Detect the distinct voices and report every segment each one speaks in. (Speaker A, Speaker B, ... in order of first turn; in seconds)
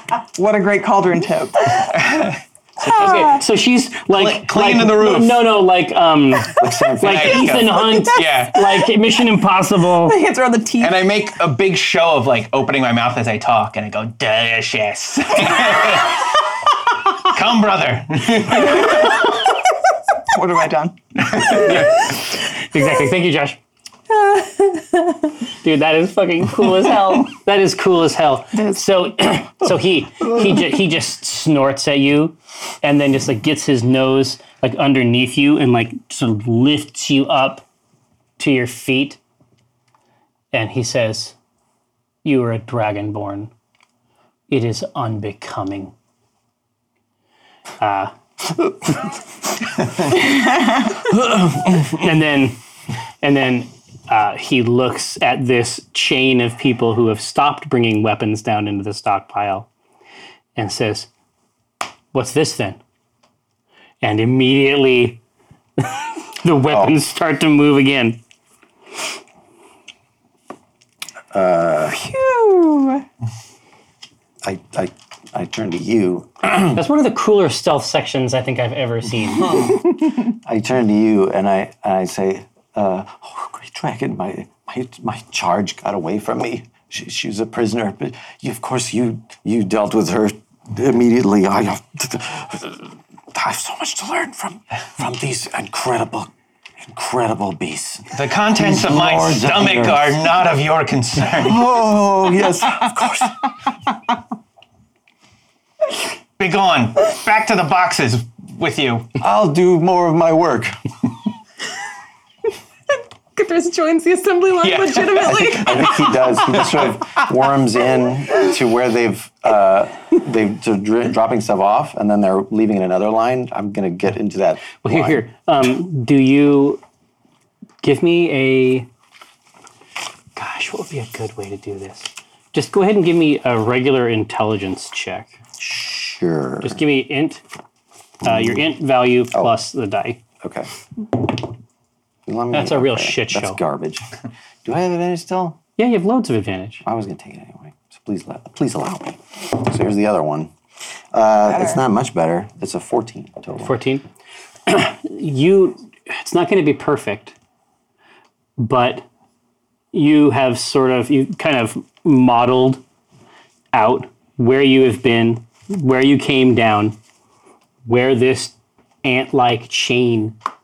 Speaker A: 0.3-1.9, 20.3-21.0, 151.5-151.8
Speaker B: 1.9-3.4, 4.1-5.5, 7.0-8.8, 10.8-16.4, 17.1-19.3, 21.2-22.1, 98.1-101.7, 106.4-109.1, 114.6-116.7
Speaker C: 2.9-3.3, 10.0-11.0, 24.1-25.3, 28.5-28.8, 71.9-73.0, 113.3-116.7
Speaker D: 2.9-10.2, 21.4-23.6, 25.6-37.6, 38.4-39.2, 40.5-41.4, 42.2-43.5, 44.5-45.9, 47.8-48.1, 51.1-52.6, 53.2-59.7, 60.6-61.1, 62.1-62.8, 64.0-65.2, 65.8-68.2, 76.7-79.6, 124.8-126.8, 127.8-128.9, 130.4-135.4, 136.6-137.4, 138.2-140.2, 142.5-143.6, 145.8-146.8, 153.6-154.1, 154.7-157.3, 158.6-159.1, 159.9-162.8, 163.7-167.0, 167.8-170.3
Speaker E: 6.6-7.8, 66.7-67.0, 71.3-72.0, 74.4-76.8, 79.7-100.2, 101.3-103.4, 109.2-110.8, 115.2-125.2, 135.6-136.8, 138.2-138.7, 140.4-140.7, 142.3-144.1, 144.6-145.6, 146.8-150.5, 151.1-153.8